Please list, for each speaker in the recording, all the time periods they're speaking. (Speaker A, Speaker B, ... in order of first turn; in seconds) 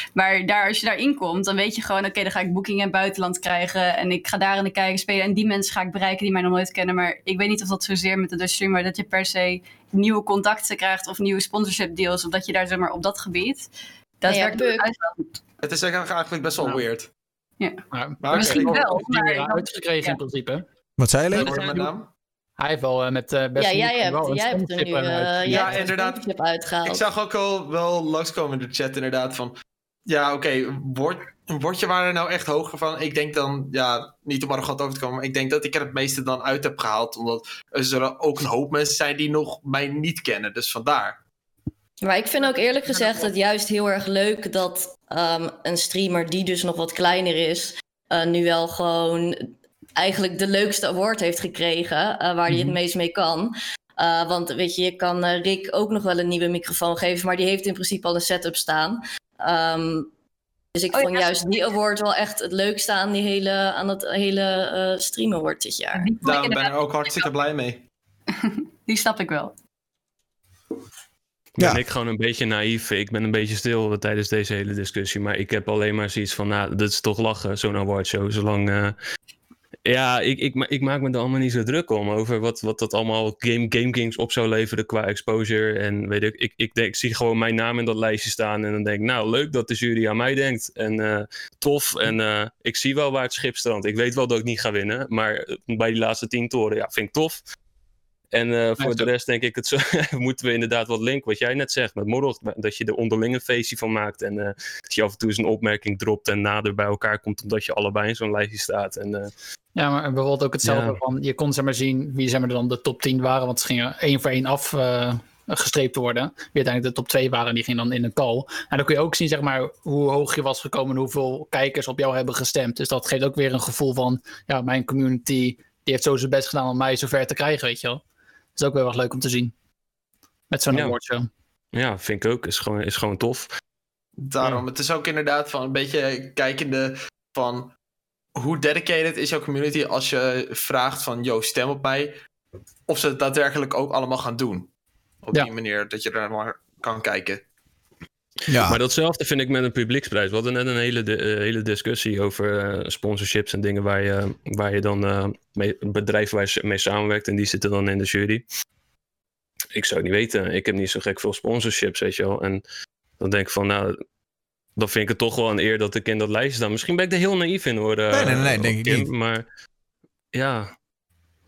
Speaker A: 0.1-13.7, 14.2-15.4, 18.3-20.2, 42.5-43.2, 60.9-61.6, 66.0-67.3, 68.3-69.5
Speaker B: 14.3-14.9, 23.6-27.1, 42.0-60.1, 60.8-66.1
Speaker C: 15.6-17.1, 18.2-19.0, 21.3-22.1, 25.4-26.2, 26.9-29.6, 30.1-41.2, 66.2-67.8, 134.2-137.7, 138.4-142.1, 142.9-144.7, 145.2-147.4
Speaker D: 17.9-20.6, 21.3-21.9, 22.6-25.9, 52.5-52.8, 98.8-99.1, 109.8-128.0, 128.6-129.5, 130.5-131.3
Speaker E: 21.0-21.8, 148.5-148.8, 168.1-169.1
Speaker F: 71.6-79.0, 79.9-97.4, 98.3-109.3, 110.6-111.0, 130.7-130.9, 131.7-133.5, 148.6-158.4, 159.8-162.6, 163.2-164.0, 164.8-169.4, 170.3-170.7